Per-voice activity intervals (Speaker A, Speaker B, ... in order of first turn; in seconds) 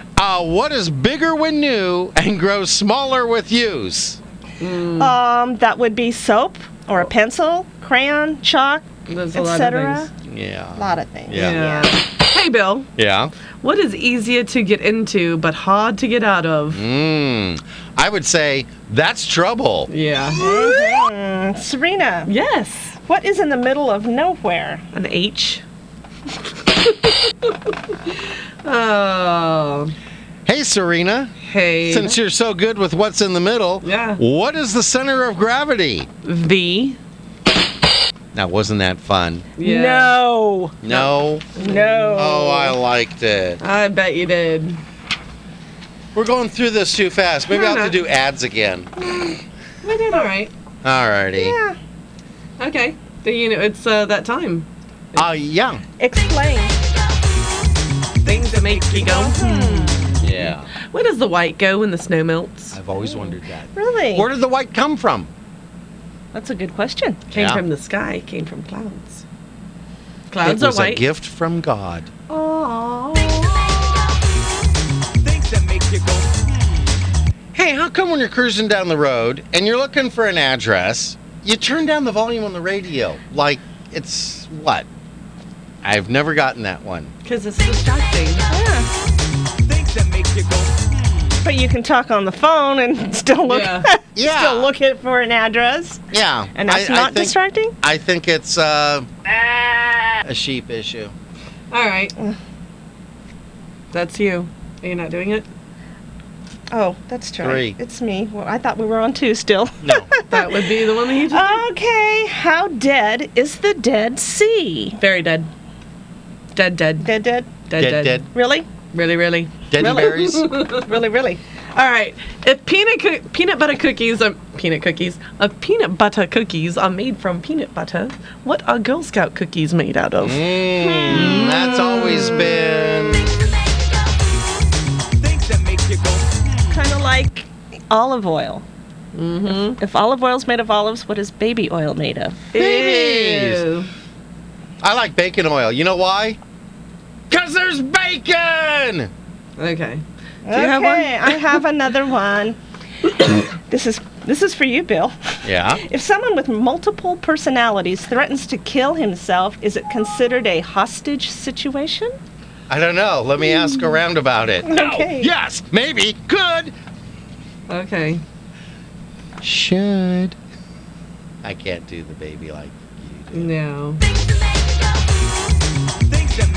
Speaker A: 0.1-4.2, 10.2-11.7, 13.0-13.3, 16.7-19.9, 30.4-36.1, 38.3-39.5, 40.8-41.5, 42.1-43.6, 46.1-48.9, 50.8-51.5, 55.1-55.8, 60.2-60.7, 62.7-65.3, 67.3-67.6, 70.4-72.1, 77.5-84.9, 85.8-87.1, 94.2-94.7, 96.1-99.1, 100.2-101.1, 107.4-107.8, 109.8-110.1, 117.8-118.3, 119.7-120.5, 130.2-133.4, 142.5-143.7, 144.8-146.4, 147.3-149.1, 155.4-155.8, 162.7-166.7, 169.4-170.3, 171.4-173.5
Speaker B: 4.6-5.1, 9.1-10.1, 11.3-12.9, 13.6-16.8, 19.9-21.0, 22.2-23.0, 24.9-25.6, 26.6-29.9, 31.4-32.2, 33.8-34.2, 36.2-37.0, 39.6-40.2, 41.5-42.4, 43.6-44.8, 47.5-48.0, 49.0-50.5, 52.6-55.3, 58.2-60.3, 60.8-62.8, 67.3-69.2, 70.3-71.0, 87.2-88.5, 93.5-93.9, 101.7-102.1, 103.9-105.5, 110.3-111.6, 115.0-115.5, 116.5-117.1, 117.7-118.2, 118.9-120.9, 121.7-132.6, 139.1-139.8, 142.5-143.9, 149.6-151.4, 167.7-168.2, 173.3-174.0
Speaker C: 5.0-10.1, 10.8-11.9, 20.4-22.3, 23.1-24.8, 39.6-41.0, 41.6-42.7, 51.3-51.8, 56.0-56.8, 58.9-60.2, 63.0-64.3, 66.3-67.2, 72.3-74.1, 88.5-88.9, 91.4-96.0, 96.5-97.7, 106.7-110.7, 111.3-115.0, 117.0-117.5, 118.3-118.7, 119.8-120.2, 120.8-121.4, 130.8-132.5, 136.7-138.6, 139.6-142.5, 150.4-152.6, 153.3-162.1, 164.6-165.3